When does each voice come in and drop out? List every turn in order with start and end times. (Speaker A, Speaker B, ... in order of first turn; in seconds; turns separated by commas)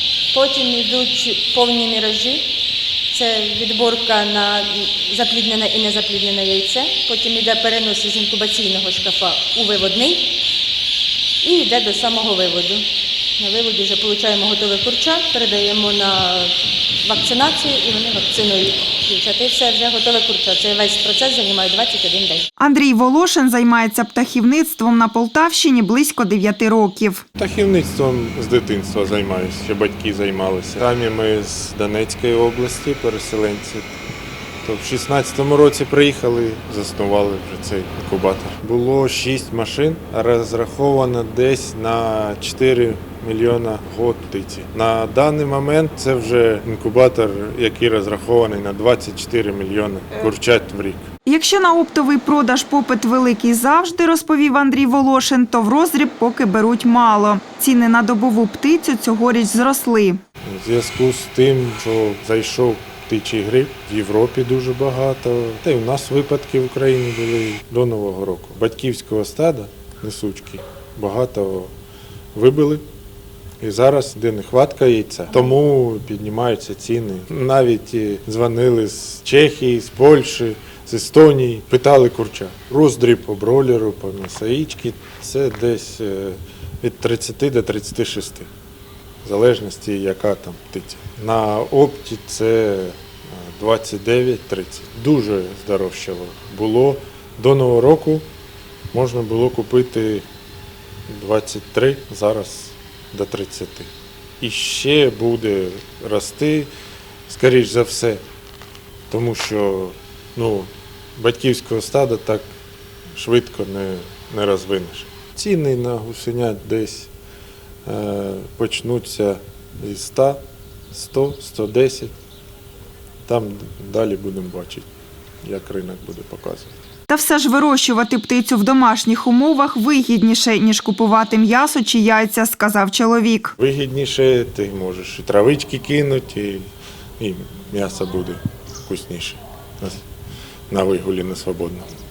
Speaker A: 0.3-2.4, Speaker A: 3.1-10.3, Speaker A: 11.4-12.8, Speaker A: 13.4-22.5, Speaker B: 22.6-27.2, Speaker C: 27.4-33.9, Speaker C: 34.6-51.1, Speaker B: 51.2-60.2, Speaker C: 60.4-71.7, Speaker C: 72.3-72.8, Speaker C: 73.6-88.5, Speaker C: 89.2-98.2, Speaker C: 98.9-100.3, Speaker C: 101.1-106.7, Speaker C: 107.3-108.2, Speaker C: 109.1-112.5, Speaker C: 113.1-117.1, Speaker C: 117.8-120.4, Speaker C: 120.9-122.1, Speaker C: 123.3-124.8, Speaker C: 125.4-126.7, Speaker B: 127.1-133.5, Speaker C: 133.6-136.7, Speaker C: 137.2-140.0, Speaker C: 140.7-141.9